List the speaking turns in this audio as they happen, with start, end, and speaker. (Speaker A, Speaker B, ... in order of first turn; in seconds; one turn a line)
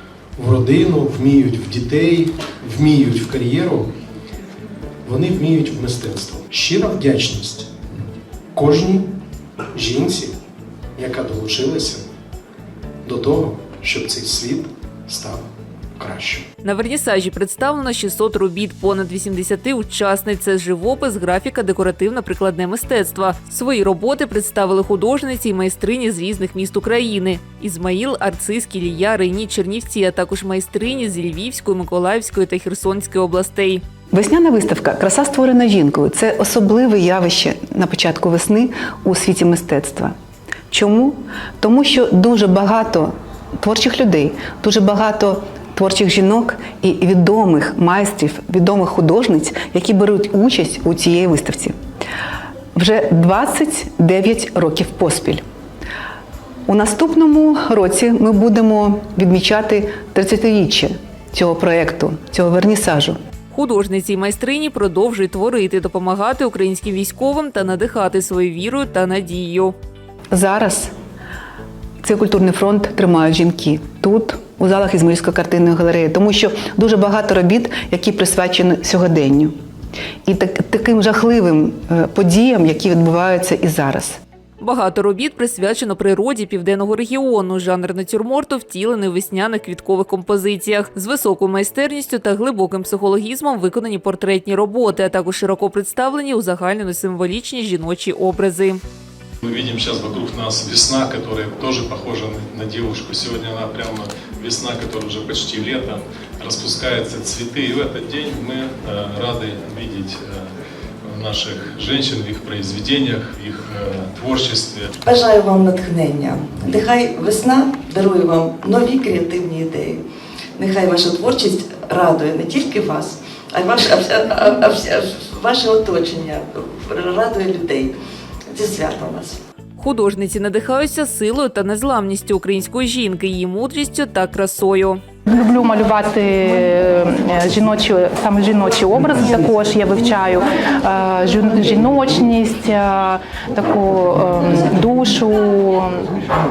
Speaker A: 0.4-3.9
Speaker A: 5.1-7.7
Speaker A: 8.6-9.1
Speaker A: 9.8-10.3
Speaker A: 11.0-12.0
Speaker A: 13.1-15.4
Speaker A: 16.0-16.4
Speaker B: 16.6-33.8
Speaker C: 34.1-40.1
Speaker C: 40.7-51.8
Speaker C: 52.8-55.4
Speaker C: 56.7-63.2
Speaker B: 63.5-69.8
Speaker C: 70.3-70.9
Speaker C: 72.0-79.5
Speaker C: 80.3-84.2
Speaker B: 84.6-98.8
Speaker D: 99.4-110.4
Speaker D: 111.0-114.9
Speaker E: 115.1-120.0
Speaker E: 120.6-127.9
Speaker E: 128.6-129.3
Speaker B: 129.8-135.0
Speaker F: 135.3-146.0